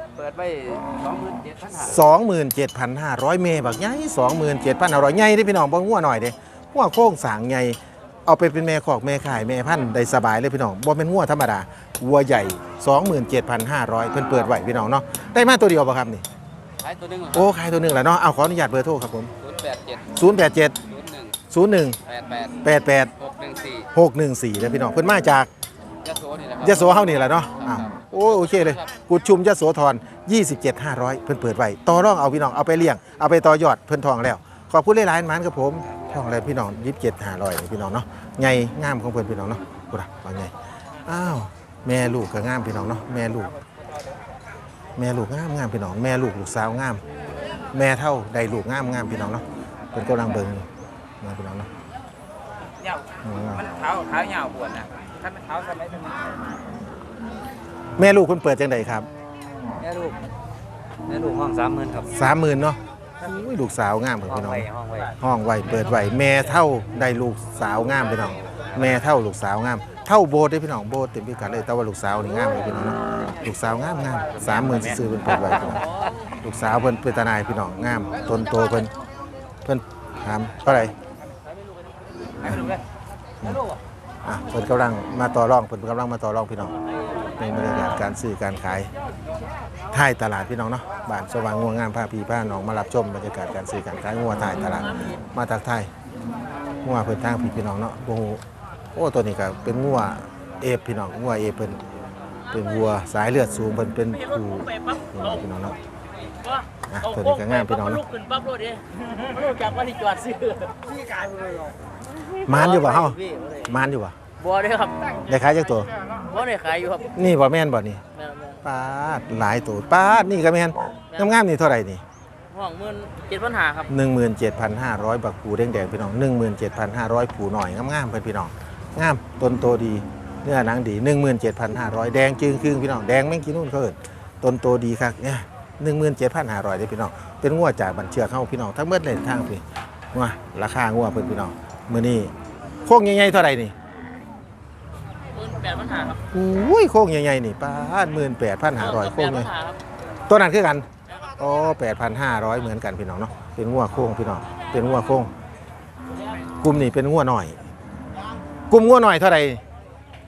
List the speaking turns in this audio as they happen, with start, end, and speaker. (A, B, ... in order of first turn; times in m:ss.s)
0:00.2-0:01.7 A
0:01.7-0:16.2 B
0:16.8-0:17.3 A
0:17.3-0:19.3 B
0:19.5-0:19.9 A
0:20.1-0:20.7 B
0:21.5-0:22.0 B
0:22.1-0:22.4 A
0:22.6-0:23.1 B
0:23.9-0:25.5 B
0:26.1-0:26.4 A
0:26.6-0:40.5 B
0:41.0-0:43.5 B
0:45.0-0:47.0 B
0:47.7-0:50.6 B
0:51.2-0:51.7 B
0:53.2-0:53.7 B
0:54.0-0:54.8 A
0:58.0-0:59.1 B
0:59.8-1:00.2 A
1:01.1-1:02.1 A
1:02.1-1:04.7 B
1:04.3-1:05.1 A
1:05.2-1:15.9 B
1:16.4-1:18.9 B
1:19.6-1:20.9 B
1:22.4-1:22.7 B
1:24.2-1:26.7 B
1:27.4-1:28.9 B
1:29.9-1:35.9 B
1:34.7-1:35.2 C
1:36.8-1:38.4 B
1:38.9-1:41.8 B
1:42.5-1:43.0 C
1:42.5-1:45.8 B
1:44.1-1:45.5 C
1:46.3-1:50.8 C
1:46.9-1:48.0 B
1:52.4-1:54.2 B
1:52.5-1:53.7 C
1:54.4-1:55.2 C
1:55.3-1:55.9 B
1:56.2-1:57.1 C
1:57.1-1:58.0 B
1:58.1-1:58.6 C
1:58.6-2:02.0 B
2:01.1-2:01.4 C
2:02.5-2:03.9 C
2:03.9-2:19.6 B
2:20.1-2:22.3 B
2:22.8-2:23.7 B
2:25.3-2:26.2 C
2:26.3-2:29.5 B
2:28.8-2:29.8 C
2:30.3-2:30.9 B
2:31.4-2:35.3 B
2:36.6-2:37.6 B
2:38.7-2:39.6 B